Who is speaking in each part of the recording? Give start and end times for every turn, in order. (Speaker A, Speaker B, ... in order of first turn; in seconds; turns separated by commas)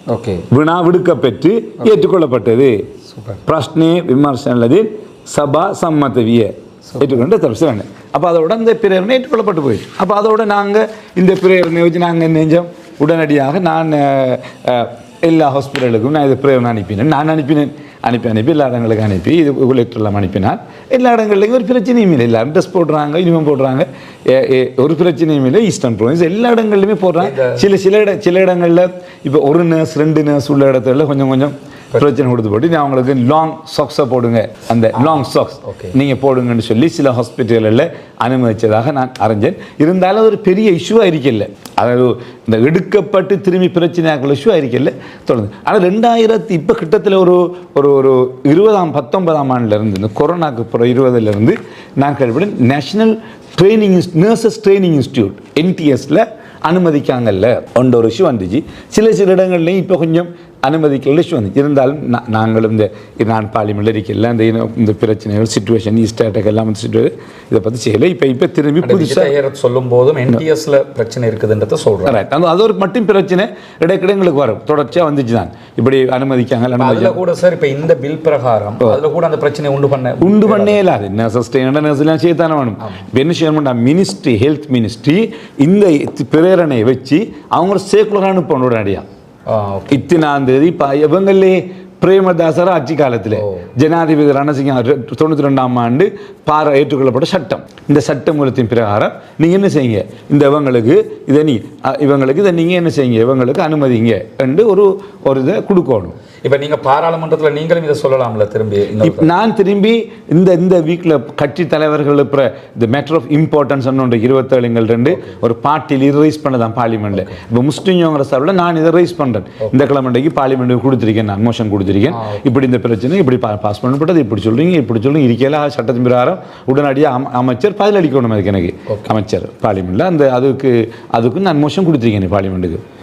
Speaker A: 0.1-0.5, Speaker B: 0.5-2.9, Speaker A: 3.1-3.4, Speaker B: 3.5-69.3, Speaker A: 6.9-7.2, Speaker A: 27.2-27.7, Speaker A: 35.0-35.9, Speaker A: 68.8-72.2, Speaker B: 72.0-77.2, Speaker A: 76.8-80.8, Speaker B: 80.2-89.1, Speaker A: 89.5-90.0, Speaker B: 89.9-106.2, Speaker A: 106.4-109.3, Speaker B: 109.0-132.8, Speaker A: 122.1-122.4, Speaker A: 128.9-129.1